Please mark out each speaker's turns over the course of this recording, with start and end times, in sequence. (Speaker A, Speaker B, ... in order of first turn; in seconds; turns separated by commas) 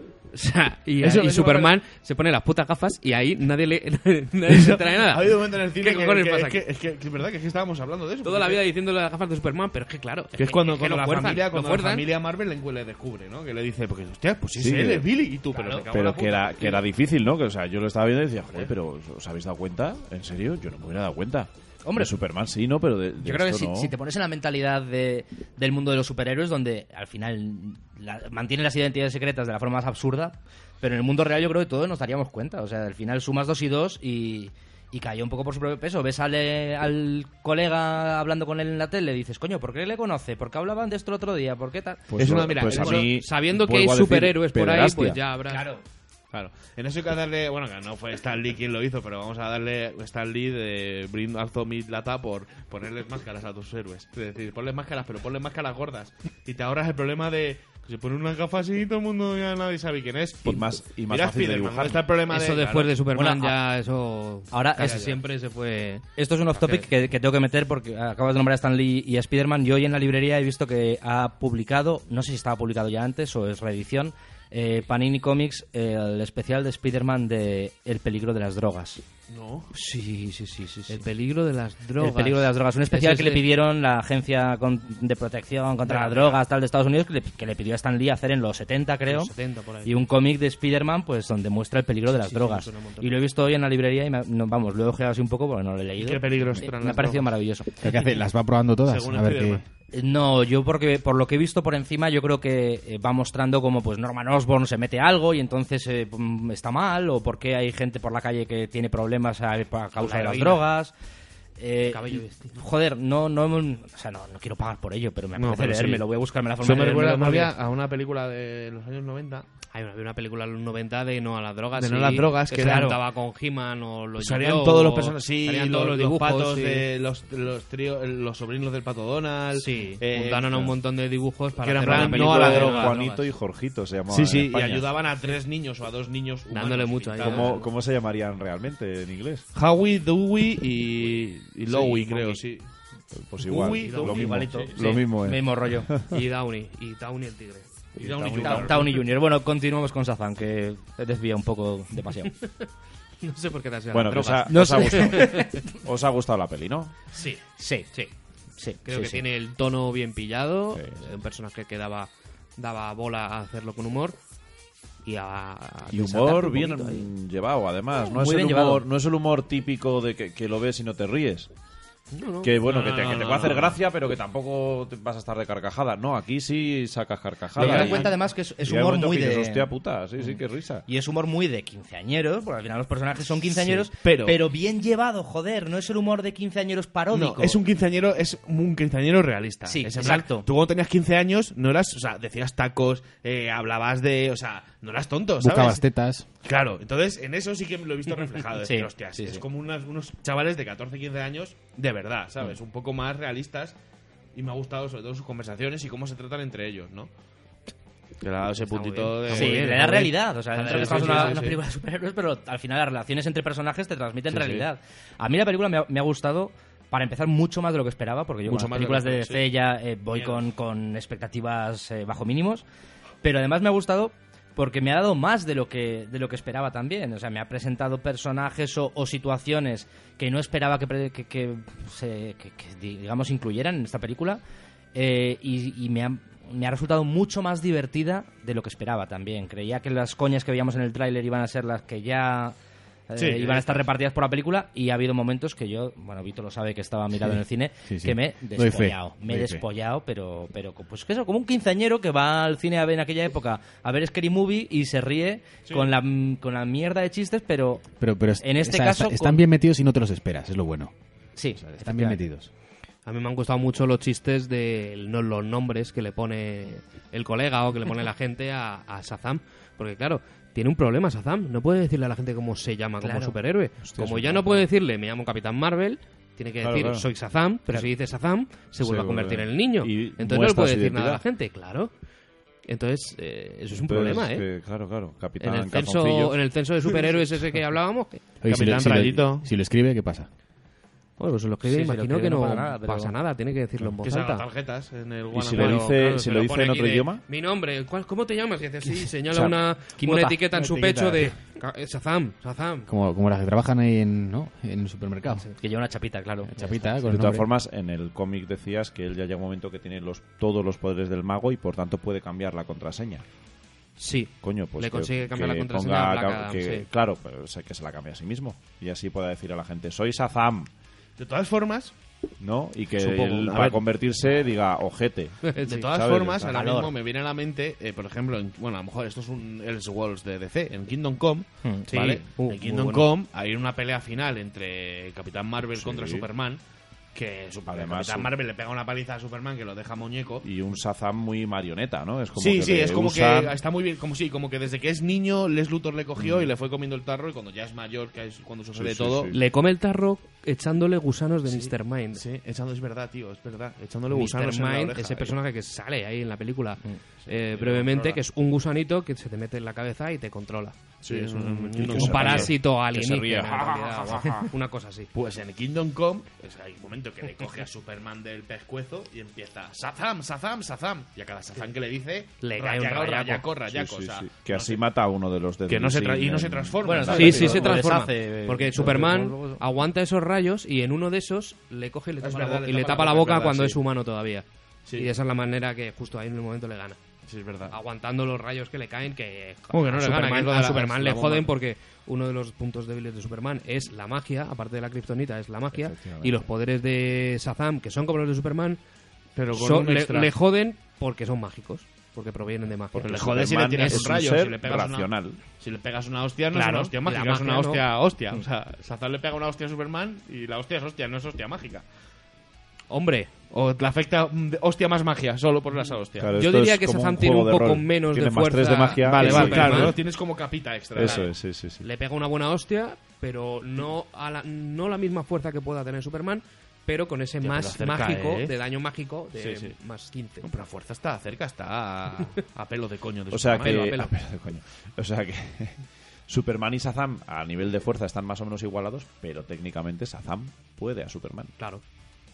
Speaker A: 0.3-6.6, Speaker B: 1.0-1.7, Speaker B: 4.5-8.6, Speaker A: 8.2-12.1, Speaker B: 10.4-16.8, Speaker C: 14.5-15.1, Speaker D: 15.5-15.9, Speaker C: 15.9-23.9, Speaker D: 21.8-22.1, Speaker D: 23.2-42.1, Speaker C: 42.1-45.2, Speaker B: 42.2-43.1, Speaker A: 42.4-45.7, Speaker D: 45.5-45.8, Speaker B: 46.3-63.0, Speaker C: 60.4-62.0, Speaker A: 62.3-66.8, Speaker D: 63.1-63.6, Speaker D: 64.5-65.2, Speaker D: 66.2-79.0, Speaker B: 79.3-79.7, Speaker D: 79.7-81.0, Speaker A: 80.9-83.4, Speaker D: 82.0-89.3, Speaker A: 85.9-86.4, Speaker A: 89.1-90.0, Speaker D: 89.8-97.7, Speaker A: 92.2-93.2, Speaker B: 96.0-97.3, Speaker E: 97.8-99.6, Speaker B: 98.8-99.6, Speaker D: 99.9-110.9, Speaker A: 110.0-110.7, Speaker D: 111.6-117.5, Speaker A: 111.8-112.5, Speaker B: 115.3-116.0, Speaker B: 116.6-119.5, Speaker A: 119.7-126.9, Speaker B: 121.7-123.0, Speaker B: 124.2-130.7, Speaker A: 129.6-133.3, Speaker B: 131.6-133.0, Speaker C: 131.8-134.9, Speaker B: 134.1-137.6, Speaker A: 136.5-137.7, Speaker C: 137.2-139.4, Speaker B: 139.5-142.7, Speaker A: 141.7-142.4, Speaker C: 143.1-146.2, Speaker B: 143.4-144.8, Speaker A: 143.7-144.2, Speaker D: 143.9-145.9, Speaker A: 146.1-148.7, Speaker C: 148.0-148.7, Speaker B: 148.0-149.0, Speaker D: 148.4-152.3, Speaker A: 152.3-152.7, Speaker A: 153.2-155.5, Speaker C: 153.9-156.9, Speaker D: 154.3-155.7, Speaker A: 157.1-157.4, Speaker D: 157.6-157.9, Speaker D: 158.6-159.2, Speaker A: 158.8-164.2, Speaker C: 160.7-161.0, Speaker A: 165.0-167.1, Speaker C: 165.9-171.5, Speaker D: 168.1-168.8, Speaker A: 172.1-172.6, Speaker C: 172.4-180.8, Speaker B: 172.6-173.8, Speaker B: 177.6-178.2, Speaker D: 177.6-187.6, Speaker B: 183.5-184.4, Speaker B: 187.1-195.8, Speaker D: 189.6-190.5, Speaker E: 195.4-196.2, Speaker B: 196.4-203.8, Speaker D: 198.6-199.4, Speaker B: 204.3-207.1, Speaker B: 208.2-209.9, Speaker A: 208.7-211.4, Speaker D: 209.3-222.6, Speaker B: 210.6-211.6, Speaker B: 214.3-214.6, Speaker B: 218.4-219.5, Speaker B: 220.1-220.4, Speaker D: 223.2-234.4, Speaker D: 234.9-242.6, Speaker D: 243.1-257.9, Speaker B: 243.2-243.8, Speaker E: 247.2-249.6, Speaker E: 258.0-260.9, Speaker D: 258.4-259.4, Speaker D: 261.4-262.2, Speaker E: 261.5-262.5, Speaker A: 263.1-281.9, Speaker D: 273.0-273.3, Speaker C: 273.8-274.6, Speaker C: 276.6-277.1, Speaker C: 278.8-281.2, Speaker A: 282.6-284.4, Speaker C: 283.8-286.4, Speaker A: 285.4-288.3, Speaker E: 288.4-290.3, Speaker B: 288.5-289.4, Speaker A: 291.2-294.5, Speaker D: 291.6-293.1, Speaker B: 294.0-296.1, Speaker C: 295.3-297.2, Speaker A: 295.5-302.9, Speaker C: 299.3-299.6, Speaker D: 300.0-301.2, Speaker E: 302.9-305.5, Speaker D: 305.6-307.0, Speaker E: 306.5-307.5, Speaker C: 307.1-313.2, Speaker A: 314.0-316.9, Speaker C: 314.4-320.7, Speaker B: 321.2-321.9, Speaker C: 322.4-326.6, Speaker B: 323.0-323.8, Speaker A: 325.5-325.9, Speaker B: 325.6-336.6, Speaker D: 326.5-326.9, Speaker D: 331.6-331.9, Speaker A: 331.9-333.1, Speaker C: 335.8-336.2, Speaker B: 337.1-340.4, Speaker C: 337.7-338.3, Speaker C: 340.4-343.6, Speaker B: 342.3-349.3, Speaker C: 346.2-346.5, Speaker C: 348.8-349.4, Speaker A: 349.3-352.2, Speaker B: 351.5-355.3, Speaker A: 354.1-365.1, Speaker B: 357.3-358.2, Speaker B: 361.0-362.6, Speaker C: 361.7-364.5, Speaker B: 365.1-374.8, Speaker A: 372.4-373.4, Speaker C: 373.7-377.7, Speaker B: 375.7-377.8, Speaker D: 376.8-379.6, Speaker A: 377.1-387.0, Speaker B: 382.2-383.8, Speaker B: 384.9-385.1, Speaker B: 387.2-387.8, Speaker A: 387.7-398.8, Speaker B: 389.7-391.5, Speaker C: 395.7-396.4, Speaker B: 399.4-400.3, Speaker A: 399.5-404.2, Speaker C: 402.9-405.4, Speaker B: 403.0-411.8, Speaker A: 406.5-407.8, Speaker A: 412.9-413.5, Speaker B: 413.5-416.3, Speaker C: 416.2-420.0, Speaker A: 416.3-420.0, Speaker B: 419.0-421.3, Speaker C: 420.9-421.8, Speaker A: 421.0-430.4, Speaker B: 427.4-428.5, Speaker B: 429.4-429.7, Speaker B: 430.4-434.1, Speaker C: 433.3-441.5, Speaker A: 433.6-434.1